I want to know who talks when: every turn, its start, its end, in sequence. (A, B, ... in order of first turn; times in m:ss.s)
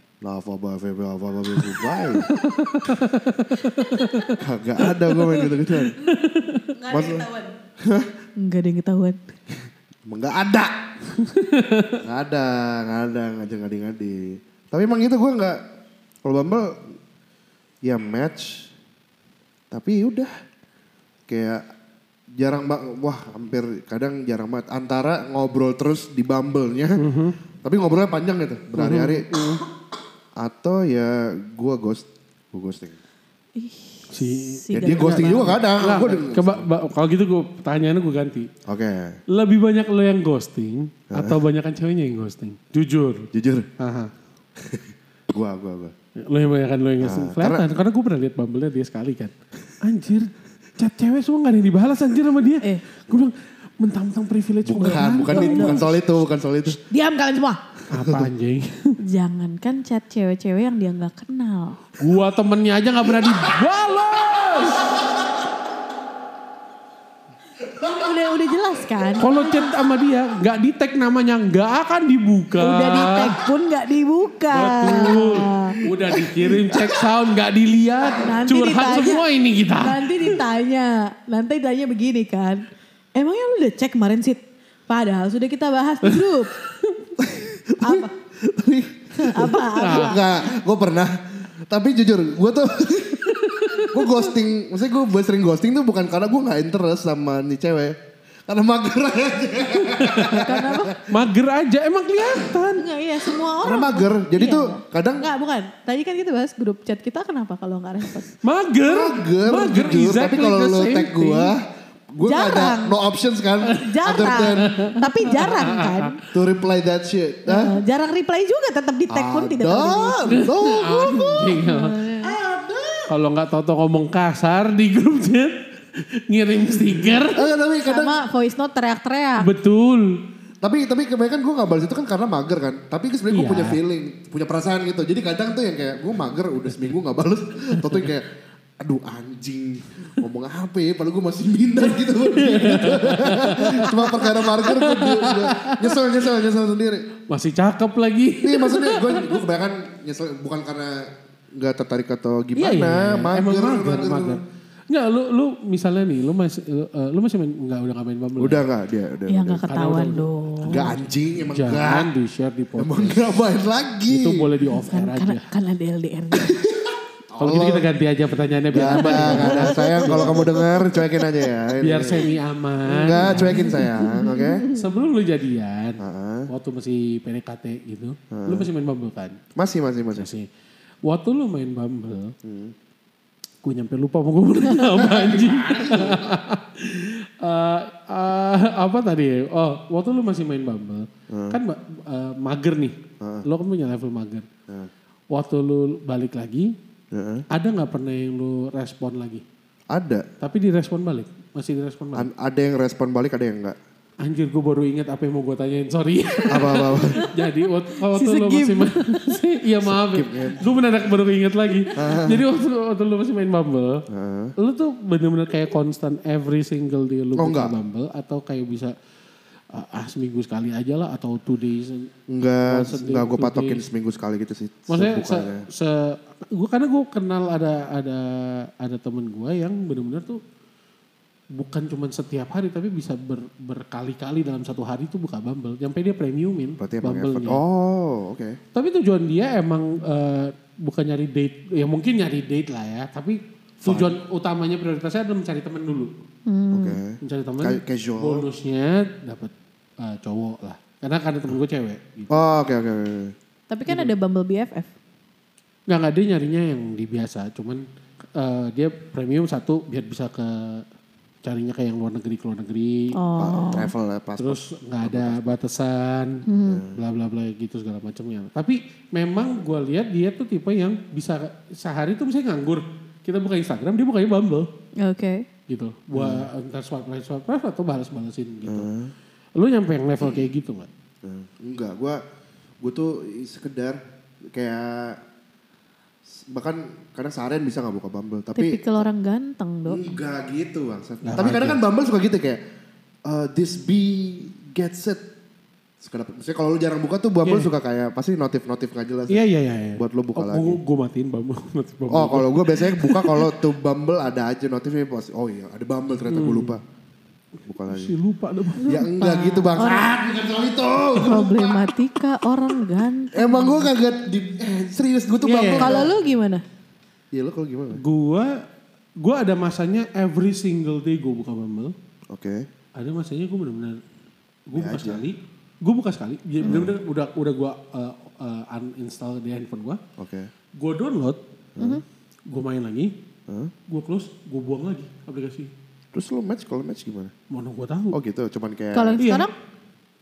0:00.2-0:02.3 A
0:02.2-0:04.4 B
0:03.8-0:04.3 C
0:04.4-0:06.0 A
0:05.9-0:06.6 B
0:06.7-0:07.5 C
0:06.9-0:07.3 A
0:07.8-0:08.1 A
0:08.4-0:09.3 C
0:10.1-0:10.7 A
0:11.2-0:12.0 B
0:12.0-0:15.6 A
0:16.2-0:16.8 A
0:17.8-0:18.7 A
0:19.7-0:20.3 A
0:21.3-0:21.6 A
0:22.4-0:27.0 A
0:27.0-0:27.4 B
0:27.6-0:29.4 A
0:28.8-0:29.6 B
0:30.4-0:33.0 A
0:33.6-0:35.6 C
0:34.1-0:38.5 B
0:34.7-0:36.6 A
0:38.6-0:39.2 A
0:39.3-0:44.1 B
0:41.1-0:41.4 A
0:43.3-0:43.7 A
0:44.6-0:45.9 A
0:46.2-0:55.8 B
0:47.0-0:47.6 A
0:54.6-0:56.8 A
0:54.8-0:55.9 C
0:56.7-0:57.6 C
0:57.9-0:59.0 B
0:57.9-0:58.3 A
0:59.0-1:01.8 C
1:02.0-1:04.9 B
1:07.7-1:09.7 C
1:09.2-1:13.4 B
1:12.6-1:15.8 C
1:14.5-1:20.4 B
1:15.8-1:17.0 A
1:18.2-1:19.2 C
1:19.8-1:22.6 C
1:23.2-1:26.5 C
1:27.2-1:38.0 A
1:27.8-1:28.1 C
1:29.2-1:30.2 C
1:29.8-1:30.2 B
1:33.4-1:33.9 B
1:38.5-1:41.1 A
1:39.8-1:40.5 B
1:40.3-1:41.0 C
1:41.0-1:42.8 B
1:42.7-1:48.4 C
1:43.6-1:45.2 A
1:48.4-1:51.5 B
1:48.8-1:51.6 A
1:52.1-1:54.8 A
1:52.2-1:53.0 C
1:53.6-1:56.2 B
1:53.7-1:56.2 C
1:56.3-1:57.8 A
1:57.4-2:02.3 C
1:59.1-2:01.5 A
2:00.3-2:02.0 B
2:02.2-2:03.1 A
2:03.1-2:07.5 B
2:07.0-2:08.1 A
2:07.8-2:09.5 C
2:09.4-2:10.2 B
2:10.6-2:18.3 A
2:13.3-2:13.8 B
2:18.8-2:27.0 A
2:22.0-2:26.0 B
2:27.3-2:29.3 B
2:28.4-2:34.4 A
2:32.6-2:38.6 B
2:38.4-2:39.6 A
2:39.3-2:40.9 C
2:39.7-2:41.0 B
2:40.6-2:42.1 A
2:41.5-2:43.2 B
2:42.8-2:44.6 A
2:44.1-2:45.5 B
2:44.9-2:46.6 C
2:46.3-2:47.9 A
2:47.4-2:50.5 B
2:48.7-2:52.3 A
2:48.8-2:51.3 C
2:51.8-2:53.8 B
2:52.8-2:54.6 A
2:53.5-2:54.8 C
2:54.7-2:59.4 B
2:56.0-2:56.5 A
2:58.3-2:58.7 A
2:59.6-3:00.3 A
3:00.1-3:00.4 B
3:01.0-3:02.3 B
3:02.4-3:02.7 A
3:03.6-3:14.5 B
3:04.9-3:06.3 A
3:11.3-3:11.6 A
3:13.2-3:13.4 A
3:15.3-3:16.7 B
3:17.1-3:17.4 A
3:17.5-3:19.4 B
3:19.9-3:20.2 A
3:20.4-3:22.3 B
3:22.1-3:23.8 A
3:24.2-3:34.0 B
3:26.5-3:27.2 A
3:28.1-3:29.4 C
3:29.8-3:30.7 A
3:31.9-3:32.4 A
3:34.1-3:34.5 A
3:34.6-3:38.9 B
3:37.4-3:37.7 A
3:39.7-3:42.1 B
3:42.3-3:45.6 A
3:42.6-3:43.8 B
3:44.9-3:50.4 B
3:51.6-3:57.6 B
3:56.8-3:58.6 A
3:58.7-4:06.1 B
4:03.8-4:04.1 A
4:06.5-4:07.0 C
4:06.7-4:08.4 A
4:07.2-4:12.3 B
4:12.3-4:13.3 A
4:13.7-4:14.9 C
4:15.9-4:17.8 B
4:18.4-4:20.8 B
4:21.4-4:23.1 B
4:23.1-4:23.9 C
4:23.4-4:25.6 A
4:24.4-4:34.7 B
4:26.4-4:26.8 C
4:26.6-4:27.0 A
4:35.0-4:35.4 C
4:35.7-4:38.9 B
4:36.1-4:36.5 A
4:38.6-4:39.1 A
4:39.6-4:40.9 B
4:40.2-4:40.5 A
4:41.2-4:42.2 A
4:42.8-4:45.2 A
4:46.3-4:49.0 A
4:48.6-4:50.0 C
4:49.8-4:52.6 A
4:51.2-4:51.8 B
4:53.2-4:55.2 A
4:56.0-4:59.4 A
4:57.4-4:57.7 B
4:59.3-5:03.5 B
5:00.0-5:00.8 A
5:02.1-5:06.8 A
5:06.3-5:06.8 B
5:07.6-5:08.1 A
5:07.8-5:08.9 B
5:08.8-5:10.1 C
5:08.8-5:11.9 A
5:09.8-5:10.2 B
5:11.1-5:13.9 C
5:13.3-5:16.1 A
5:15.4-5:16.1 B
5:15.8-5:16.6 C
5:17.3-5:18.0 A
5:17.9-5:18.6 B
5:19.2-5:21.9 B
5:22.3-5:22.7 A
5:23.0-5:24.0 B
5:24.7-5:30.0 B
5:24.7-5:25.2 A
5:26.6-5:27.0 A
5:30.2-5:30.5 A
5:30.8-5:31.4 B
5:31.8-5:32.0 A
5:32.5-5:33.1 B
5:33.5-5:33.7 A
5:33.9-5:35.7 B
5:36.1-5:37.3 A
5:37.5-5:38.2 B
5:38.1-5:39.2 A
5:38.9-5:39.5 C
5:39.2-5:39.5 B